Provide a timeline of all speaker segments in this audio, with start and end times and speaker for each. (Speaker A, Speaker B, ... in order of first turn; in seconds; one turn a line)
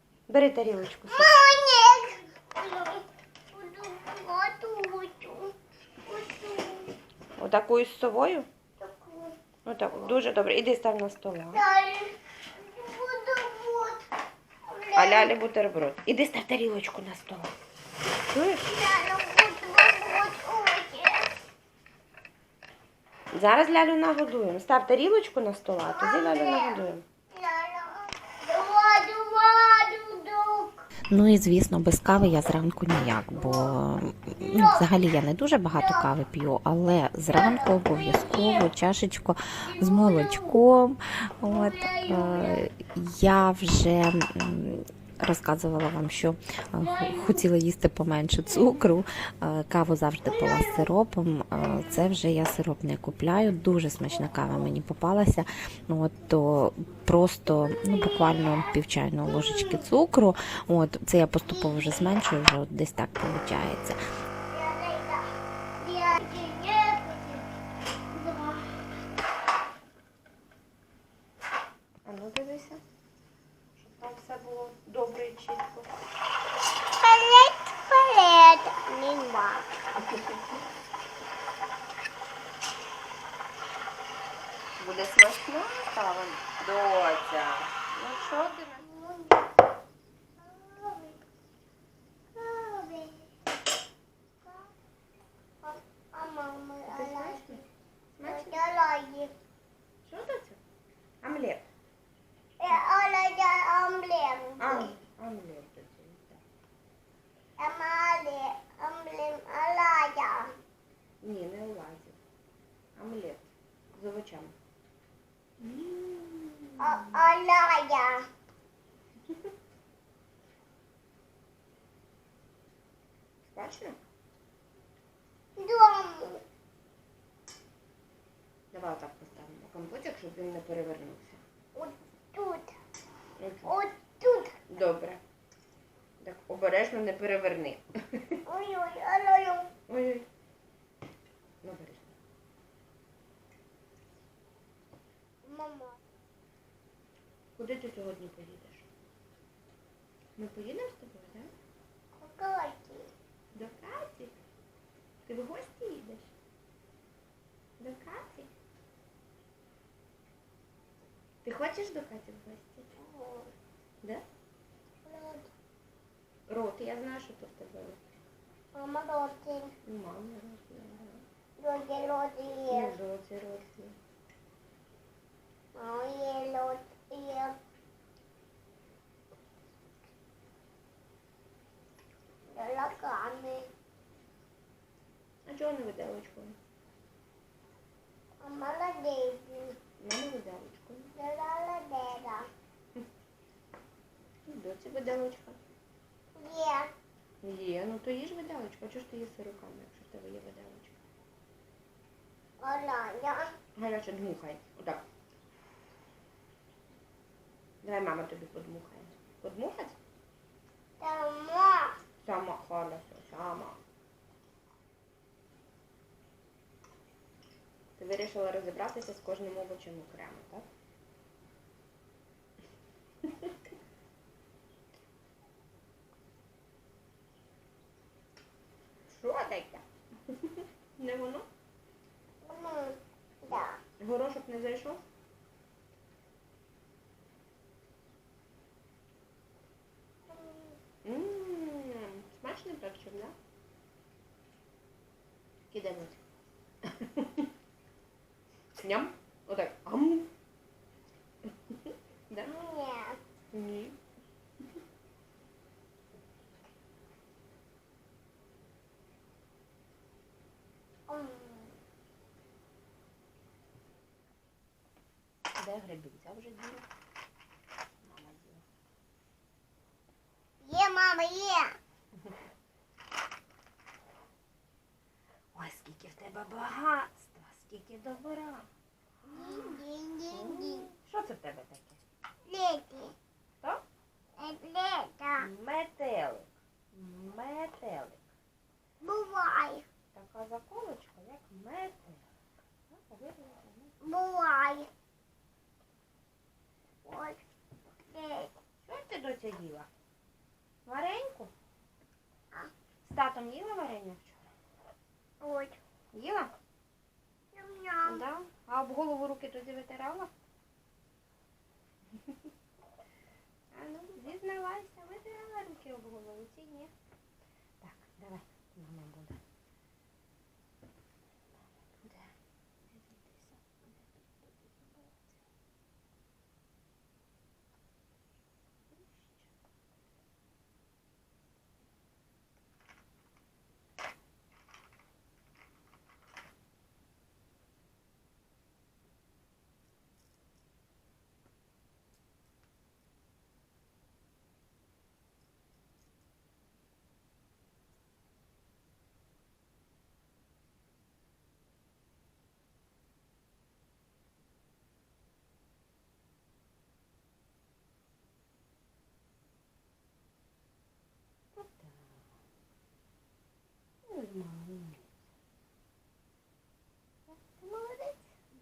Speaker A: 0.3-1.3
Speaker B: 1.1-6.9
Speaker A: 7.4-8.5
Speaker B: 8.8-9.4
Speaker A: 9.6-11.6
Speaker B: 11.5-14.0
Speaker B: 14.6-15.3
Speaker A: 14.9-17.5
Speaker A: 18.3-18.7
Speaker B: 18.7-21.3
Speaker A: 23.3-27.0
Speaker B: 25.9-30.8
Speaker C: 31.1-64.0
Speaker B: 34.4-35.0
Speaker B: 35.8-36.0
Speaker B: 37.3-38.7
Speaker B: 39.6-40.6
Speaker B: 41.4-42.7
Speaker B: 46.8-47.4
Speaker B: 50.4-50.7
Speaker B: 57.7-58.7
Speaker B: 59.3-59.8
Speaker B: 61.5-62.1
Speaker B: 64.5-65.2
Speaker B: 65.8-67.5
Speaker B: 68.1-68.7
Speaker A: 72.0-72.8
Speaker A: 73.8-75.9
Speaker B: 76.9-79.7
Speaker A: 84.8-88.8
Speaker B: 88.8-89.7
Speaker B: 90.4-91.2
Speaker B: 92.3-93.2
Speaker B: 95.6-97.6
Speaker A: 96.9-97.6
Speaker A: 98.2-98.6
Speaker B: 98.2-99.3
Speaker A: 100.0-100.6
Speaker A: 101.2-101.6
Speaker B: 102.6-104.9
Speaker A: 104.6-106.4
Speaker B: 107.6-110.5
Speaker A: 111.2-112.2
Speaker A: 113.0-114.5
Speaker A: 115.6-117.1
Speaker B: 116.8-118.3
Speaker A: 119.3-119.5
Speaker A: 123.5-124.0
Speaker B: 125.6-126.4
Speaker A: 128.7-131.4
Speaker B: 131.7-132.7
Speaker A: 133.4-133.7
Speaker B: 133.6-134.6
Speaker A: 134.7-135.2
Speaker A: 136.2-138.4
Speaker B: 138.4-139.7
Speaker A: 139.9-140.3
Speaker A: 141.6-142.1
Speaker B: 145.4-146.0
Speaker A: 147.6-148.9
Speaker A: 150.4-151.5
Speaker B: 152.1-153.1
Speaker A: 153.5-154.3
Speaker A: 155.2-156.3
Speaker A: 157.8-158.5
Speaker A: 161.4-162.9
Speaker B: 162.9-163.5
Speaker B: 165.0-165.5
Speaker A: 166.5-168.1
Speaker B: 168.7-169.7
Speaker A: 169.8-171.2
Speaker B: 171.6-172.9
Speaker A: 172.7-174.0
Speaker B: 175.7-177.6
Speaker B: 182.5-183.7
Speaker A: 185.4-186.6
Speaker B: 188.4-189.8
Speaker A: 190.0-191.1
Speaker B: 191.2-192.5
Speaker A: 194.4-195.6
Speaker B: 196.3-196.9
Speaker A: 197.4-201.1
Speaker B: 202.6-203.5
Speaker A: 203.8-205.1
Speaker A: 207.8-210.0
Speaker B: 211.0-212.0
Speaker A: 212.2-213.8
Speaker A: 218.0-220.7
Speaker A: 223.2-223.5
Speaker A: 229.1-231.5
Speaker B: 232.4-233.8
Speaker A: 234.0-235.0
Speaker B: 240.3-240.8
Speaker A: 241.0-243.3
Speaker A: 245.7-246.2
Speaker A: 246.8-247.5
Speaker A: 248.8-250.3
Speaker A: 251.4-252.5
Speaker B: 252.4-253.2
Speaker A: 253.5-254.0
Speaker B: 261.1-261.7
Speaker A: 265.6-266.9
Speaker A: 268.0-268.6
Speaker B: 270.6-271.8
Speaker A: 275.5-278.7
Speaker B: 279.2-280.9
Speaker A: 280.3-282.0
Speaker B: 282.4-283.1
Speaker B: 284.4-285.5
Speaker A: 285.4-288.2
Speaker B: 289.0-289.9
Speaker A: 290.1-292.3
Speaker A: 292.9-293.9
Speaker B: 294.0-294.9
Speaker B: 297.0-297.4
Speaker B: 298.1-298.5
Speaker A: 298.8-299.9
Speaker A: 300.9-301.5
Speaker A: 303.0-304.5
Speaker B: 305.4-305.8
Speaker A: 306.1-306.5
Speaker B: 307.5-308.2
Speaker A: 308.0-310.3
Speaker A: 313.7-316.9
Speaker A: 317.8-319.4
Speaker A: 321.6-322.3
Speaker A: 322.9-325.4
Speaker A: 328.9-329.5
Speaker A: 361.5-362.3
Speaker A: 364.0-365.2
Speaker A: 367.3-368.3